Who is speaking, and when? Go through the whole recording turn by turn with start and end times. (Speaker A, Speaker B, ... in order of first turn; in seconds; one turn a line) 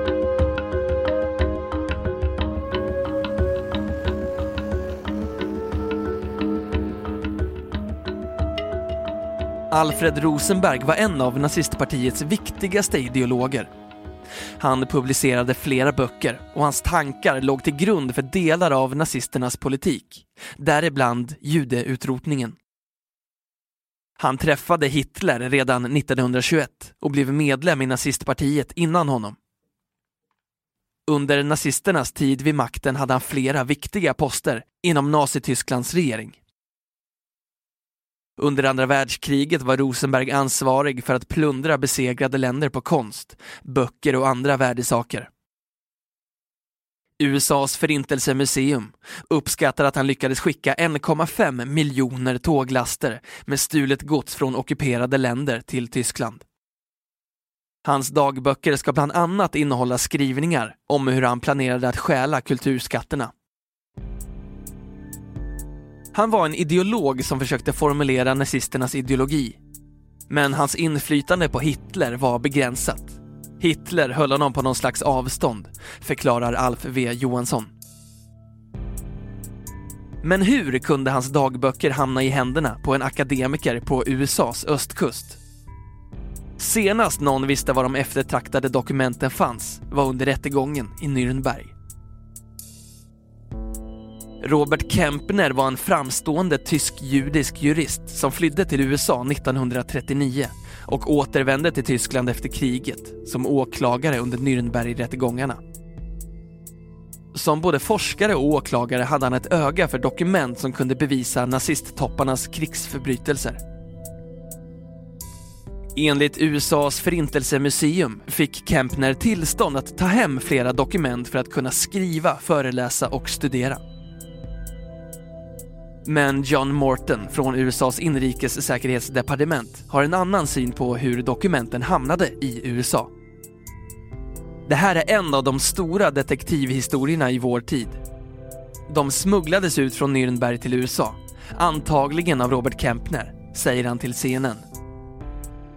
Speaker A: 9.7-13.7
Speaker A: 14.6-22.6
Speaker A: 24.2-29.4
Speaker A: 31.1-36.4
Speaker A: 38.4-45.3
Speaker A: 47.2-56.5
Speaker A: 57.9-63.3
Speaker A: 66.1-69.6
Speaker A: 70.3-77.7
Speaker A: 80.2-85.4
Speaker A: 86.6-91.7
Speaker A: 94.4-105.6
Speaker A: 107.3-113.6
Speaker A: 116.0-123.8
Speaker A: 126.1-133.1
Speaker A: 134.7-138.0
Speaker A: 138.9-144.6